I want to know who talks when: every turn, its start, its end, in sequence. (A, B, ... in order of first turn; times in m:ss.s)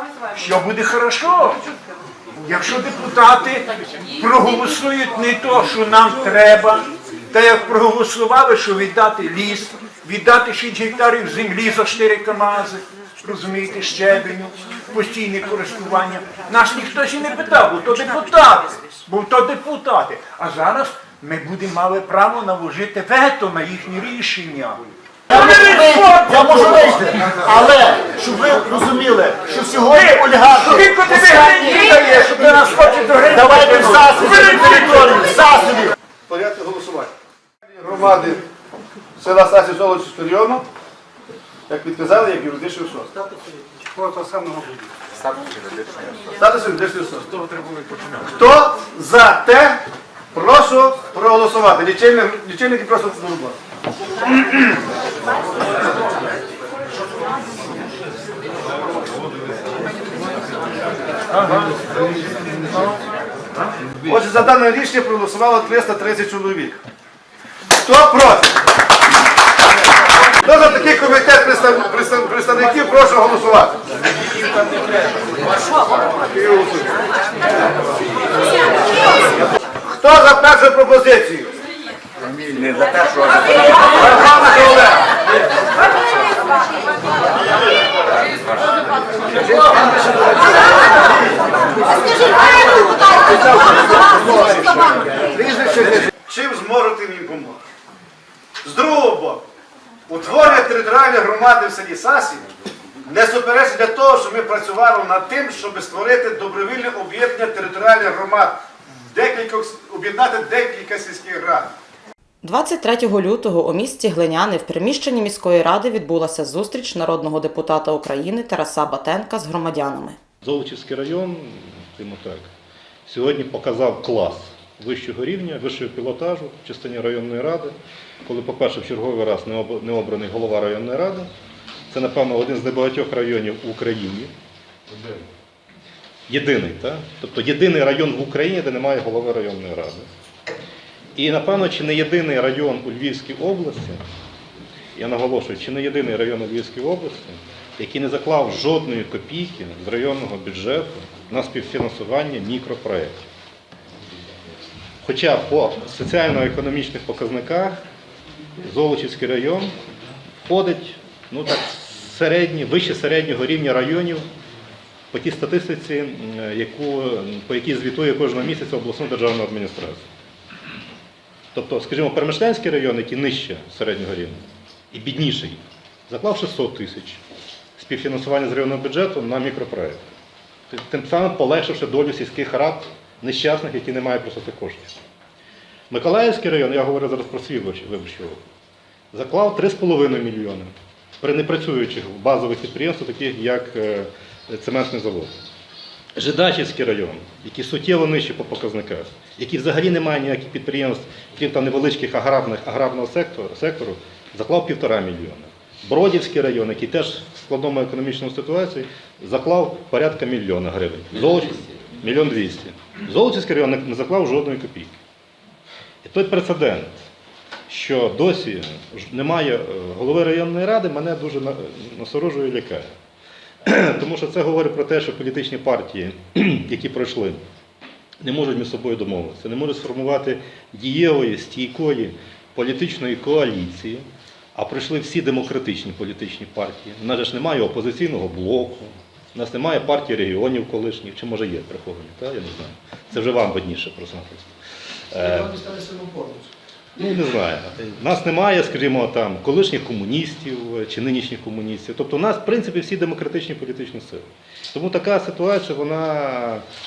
0:00.3-0:01.6 A
0:02.4-0:27.0 A
0:25.3-0:32.6 B
0:29.9-0:35.3 A
0:33.2-0:35.9 B
0:36.3-0:37.1 C
0:37.8-0:38.4 C
0:39.2-0:40.6 C
0:41.7-0:43.1 C
0:44.0-0:44.6 B
0:46.3-0:47.3 C
0:48.2-0:49.8 C
0:50.3-0:53.6 C
0:54.3-0:54.6 C
1:04.0-1:06.8 C
1:07.8-1:08.6 C
1:10.4-1:13.8 C
1:16.2-1:16.9 C
1:19.9-1:21.5 C
1:24.1-1:24.8 C
1:29.3-1:30.1 C
1:35.6-1:37.6 C
1:38.6-1:39.4 C
1:40.1-1:42.5 C
1:43.1-1:48.6 C
1:49.1-1:51.7 C
1:52.4-2:00.2 D
2:00.4-2:02.5 E
2:03.1-2:11.3 E
2:11.9-2:14.3 E
2:16.3-2:20.1 E
2:21.2-2:24.1 E
2:25.0-2:33.3 E
2:35.0-2:37.8 E
2:38.6-2:39.7 E
2:40.4-2:44.3 E
2:45.1-2:50.1 E
2:51.5-2:57.2 E
2:57.8-3:00.1 E
3:00.7-3:05.0 E
3:05.9-3:08.4 E
3:09.1-3:15.4 E
3:16.2-3:35.0 E
3:36.0-3:37.1 E
3:37.7-3:42.9 E
3:43.7-3:47.4 E
3:48.2-4:04.6 E
4:05.1-4:05.5 E
4:05.2-4:06.5 B
4:07.0-4:16.6 E